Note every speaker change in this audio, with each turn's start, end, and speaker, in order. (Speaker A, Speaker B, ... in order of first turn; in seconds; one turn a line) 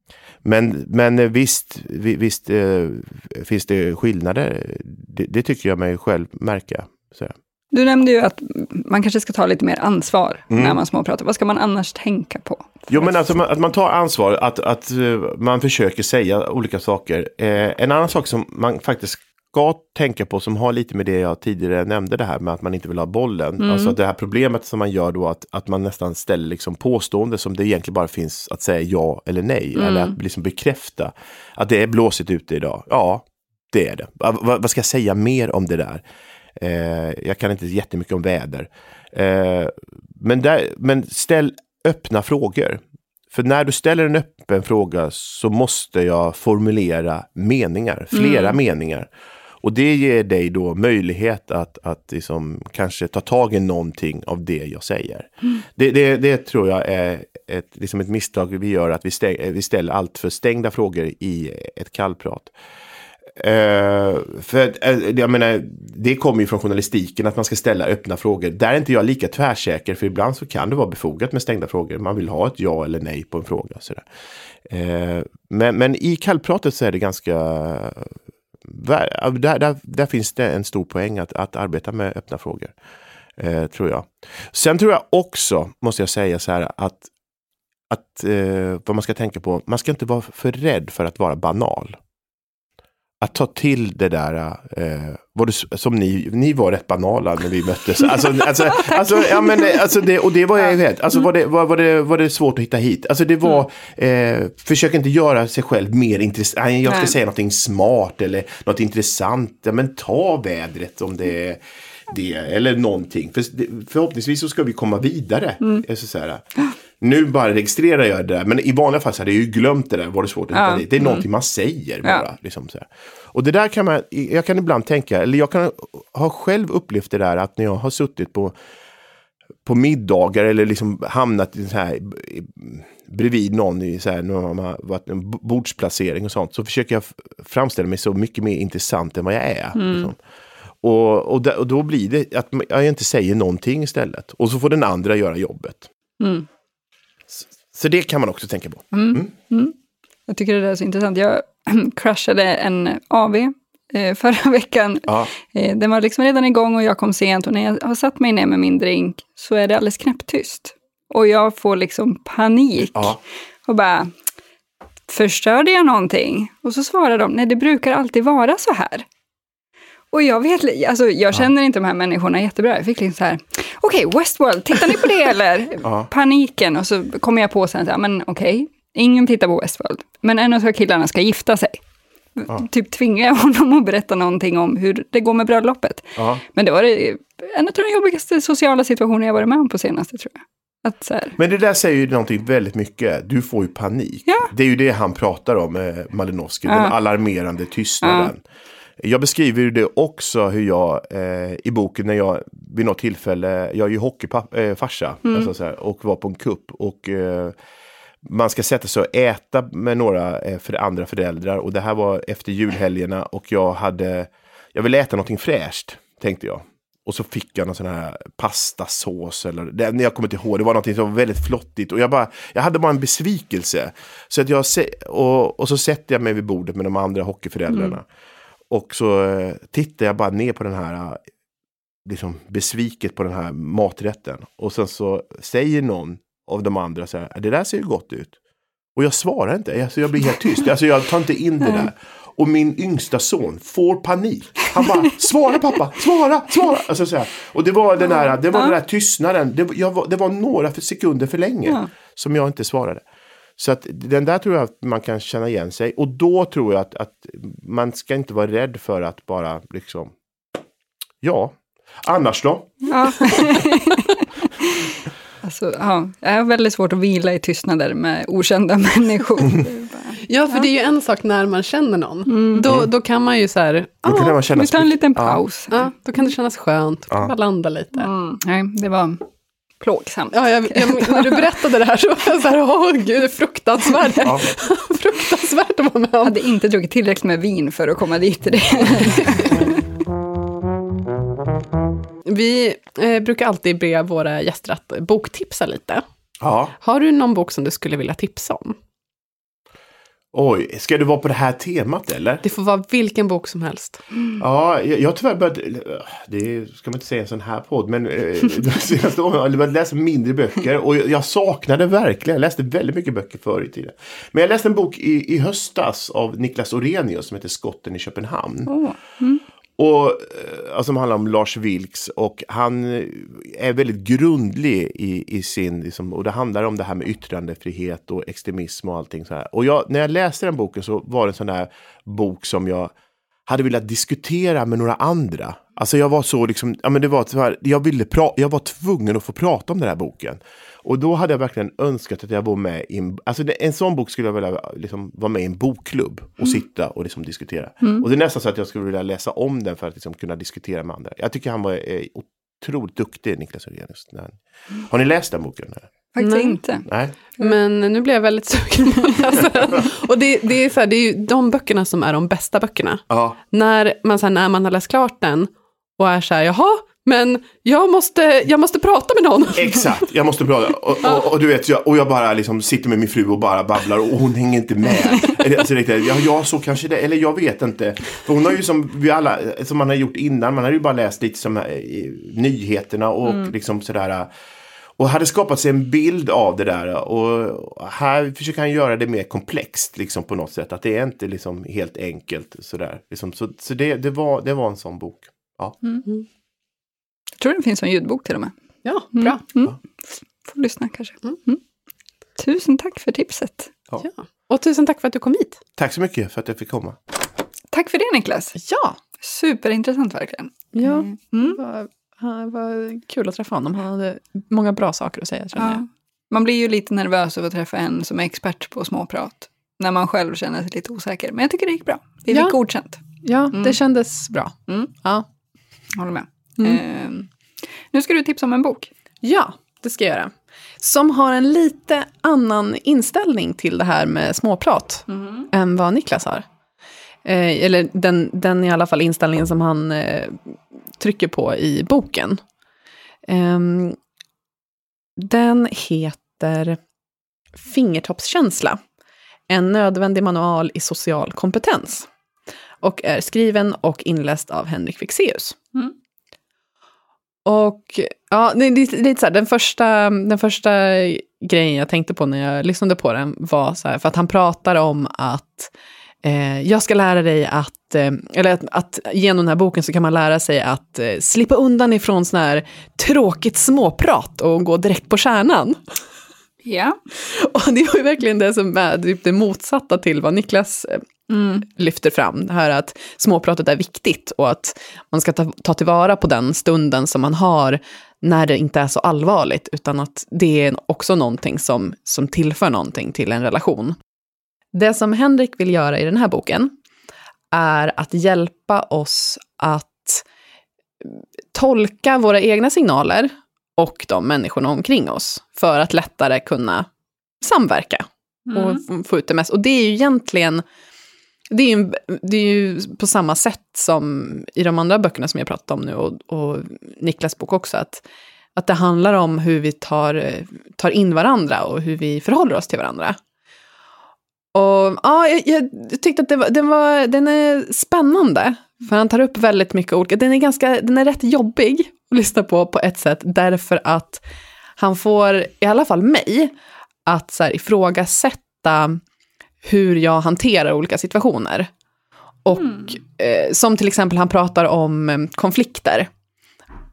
Speaker A: 0.4-7.3
Speaker B: 7.7-13.2
Speaker A: 10.5-10.8
Speaker A: 12.9-36.0
Speaker B: 23.6-23.9
Speaker B: 29.8-30.1
Speaker A: 36.6-49.1
Speaker B: 48.1-48.6
Speaker A: 49.6-62.5
Speaker A: 63.4-74.0
Speaker A: 74.7-78.1
Speaker A: 78.7-82.7
Speaker A: 83.4-87.0
Speaker A: 87.9-92.0
Speaker A: 93.2-116.4
Speaker B: 98.7-99.8
Speaker B: 106.8-107.2
Speaker A: 117.0-128.5
Speaker B: 120.5-121.2
Speaker A: 129.6-140.2
Speaker B: 139.8-140.1
Speaker A: 140.8-145.9
Speaker B: 146.2-146.5
Speaker A: 147.3-149.3
Speaker B: 148.9-149.7
Speaker B: 150.3-164.2
Speaker B: 165.1-169.1
Speaker B: 170.1-181.8
Speaker B: 182.3-191.4
Speaker A: 186.2-186.4
Speaker A: 191.4-198.4
Speaker B: 196.7-196.9
Speaker B: 198.0-198.3
Speaker A: 199.0-207.5
Speaker B: 205.2-205.5
Speaker A: 208.2-228.0
Speaker A: 228.7-231.2
Speaker A: 232.0-238.3
Speaker A: 238.9-253.0
Speaker B: 248.0-248.8
Speaker A: 253.6-260.1
Speaker A: 261.2-263.4
Speaker B: 262.9-270.7
Speaker C: 270.2-274.4
Speaker B: 272.3-272.7
Speaker A: 272.6-272.9
Speaker A: 274.0-275.4
Speaker B: 274.5-275.8
Speaker C: 275.7-278.1
Speaker B: 278.0-279.2
Speaker B: 279.8-281.5
Speaker C: 280.3-286.4
Speaker A: 284.2-284.5
Speaker B: 286.2-289.8
Speaker C: 292.2-296.0
Speaker A: 296.4-296.7
Speaker C: 296.8-298.8
Speaker A: 300.3-302.4
Speaker C: 302.4-304.0
Speaker A: 304.4-318.7
Speaker B: 318.7-319.4
Speaker A: 319.8-332.9
Speaker A: 333.5-355.9
Speaker B: 356.1-356.9
Speaker C: 356.2-356.6
Speaker A: 356.9-357.1
Speaker C: 357.4-370.1
Speaker A: 363.1-363.4
Speaker A: 369.5-384.3
Speaker A: 385.0-395.8
Speaker B: 397.4-398.5
Speaker C: 398.8-399.4
Speaker B: 399.1-401.6
Speaker B: 402.4-403.7
Speaker C: 404.0-405.6
Speaker A: 405.8-407.0
Speaker B: 407.7-408.6
Speaker C: 408.6-409.0
Speaker B: 409.2-411.6
Speaker C: 410.8-415.8
Speaker B: 415.6-423.0
Speaker C: 422.3-422.6
Speaker C: 423.2-425.2
Speaker B: 423.5-423.8
Speaker B: 425.9-427.3
Speaker B: 427.9-428.9
Speaker C: 429.2-436.4
Speaker B: 435.1-435.5
Speaker C: 437.2-442.4
Speaker C: 443.3-444.0
Speaker C: 445.2-446.8
Speaker C: 447.6-448.8
Speaker C: 449.5-452.1
Speaker C: 452.8-455.6
Speaker C: 457.4-465.7
Speaker C: 466.2-475.8
Speaker B: 476.6-477.0
Speaker C: 477.2-481.0
Speaker B: 481.3-481.6
Speaker C: 481.6-494.0
Speaker C: 494.7-496.7
Speaker C: 497.5-500.2
Speaker C: 501.0-506.9
Speaker C: 507.4-510.6
Speaker B: 508.5-508.8
Speaker C: 511.5-518.0
Speaker C: 518.5-523.2
Speaker C: 524.5-534.2
Speaker C: 534.8-536.5
Speaker C: 537.0-539.0
Speaker C: 539.6-541.7
Speaker C: 542.4-546.1